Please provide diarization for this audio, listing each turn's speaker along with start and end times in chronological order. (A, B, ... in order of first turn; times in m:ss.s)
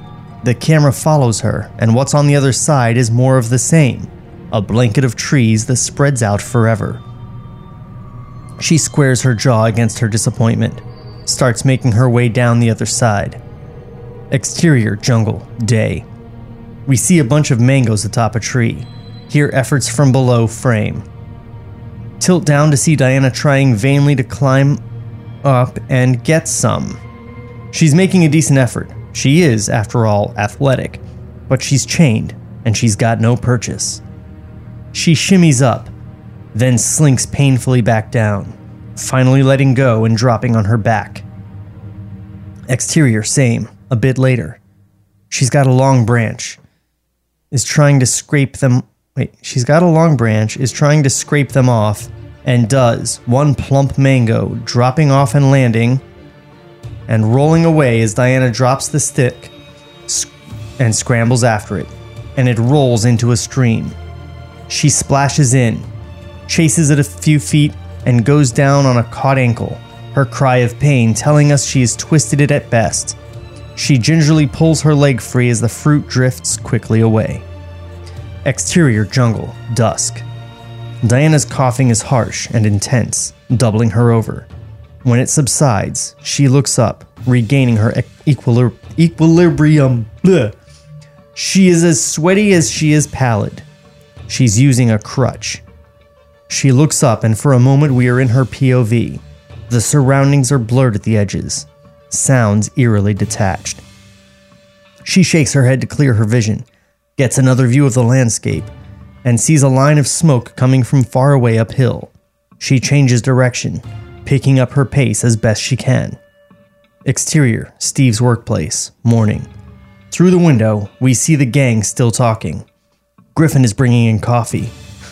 0:00.4-0:07.0 A
0:08.6-0:13.4 A
0:14.3-0:16.1 A
0:16.9-0:21.1 A
0:22.2-0:24.8 A
0:25.4-0:27.0 A
0:27.7-0:34.0 A
0:34.9-0:35.9 A
0:36.5-0:41.2 A
0:42.7-0:44.6 A
0:45.3-0:46.6 A
0:47.5-0:56.0 A
0:57.1-0:59.5 A
1:00.1-1:04.0 A
1:04.7-1:05.9 A
1:06.5-1:13.2 A
1:13.8-1:17.4 A
1:18.4-1:20.2 A
1:21.0-1:24.5 A
1:25.0-1:30.6 A
1:31.4-1:33.6 A
1:34.3-1:35.6 A
1:36.5-1:43.8 A
1:45.0-1:46.7 A
1:47.2-1:48.7 A
1:49.2-1:56.2 A
1:57.0-1:59.5 A
2:00.1-2:02.6 A
2:03.4-2:04.8 A